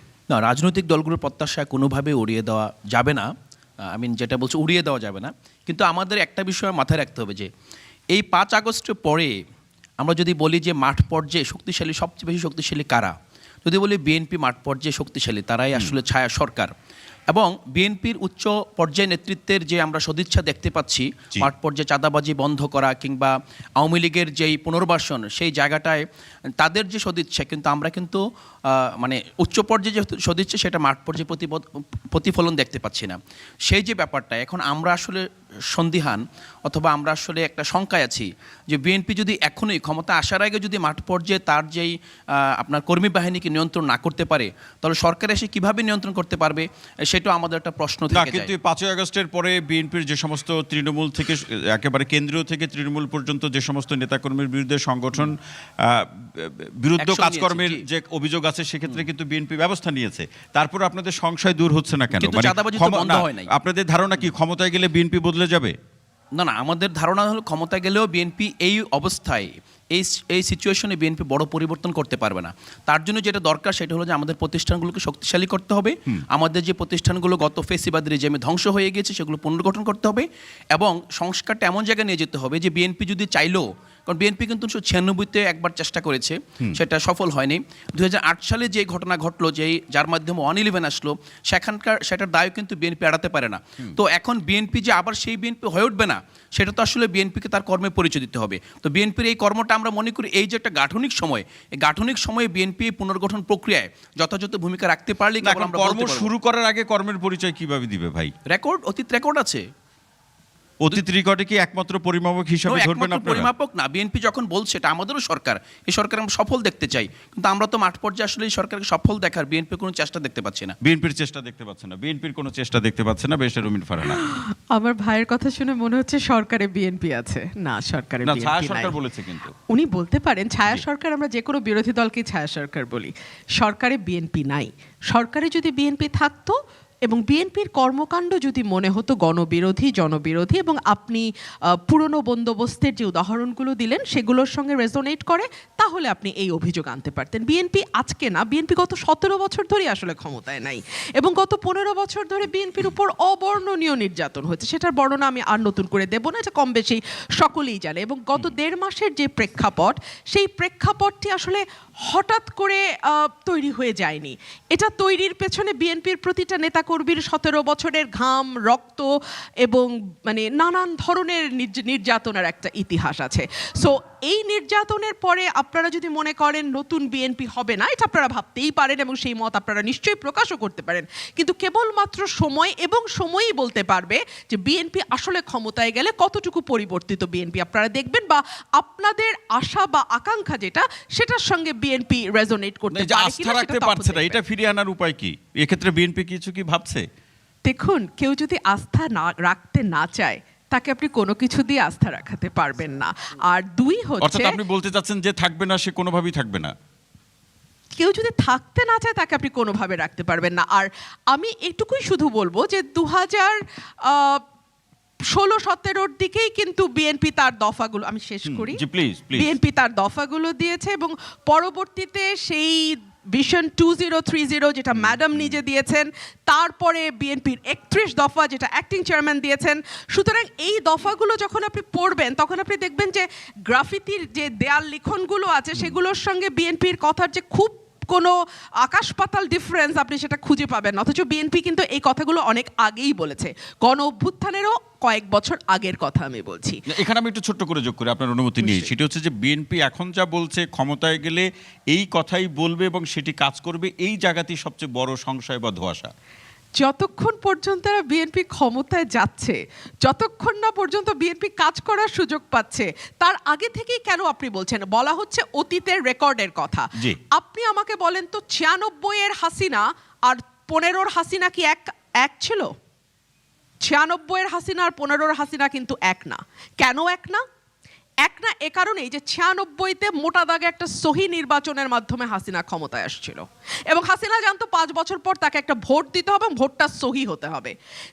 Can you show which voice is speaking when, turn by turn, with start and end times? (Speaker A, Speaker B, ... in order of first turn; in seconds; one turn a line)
Speaker A: 0.3-3.3
Speaker A: 3.9-7.5
Speaker A: 8.1-9.3
Speaker A: 10.0-13.1
Speaker A: 13.6-16.7
Speaker A: 17.3-26.0
Speaker A: 26.6-48.5
Speaker B: 48.1-65.7
Speaker A: 57.0-57.8
Speaker A: 62.1-63.5
Speaker A: 66.3-106.3
Speaker B: 105.4-108.3
Speaker A: 108.5-109.6
Speaker B: 110.8-113.5
Speaker A: 112.7-120.8
Speaker B: 120.8-124.2
Speaker C: 124.0-128.9
Speaker B: 128.2-129.5
Speaker C: 129.7-169.1
Speaker C: 169.6-194.4
Speaker B: 192.9-197.0
Speaker C: 197.7-204.6
Speaker B: 204.2-206.7
Speaker C: 207.9-213.6
Speaker C: 214.1-214.4
Speaker C: 215.3-246.8
Speaker B: 218.4-219.5
Speaker B: 224.9-225.6
Speaker B: 246.9-256.1
Speaker C: 248.6-248.9
Speaker C: 256.8-272.7
Speaker C: 273.9-277.4
Speaker C: 278.2-287.7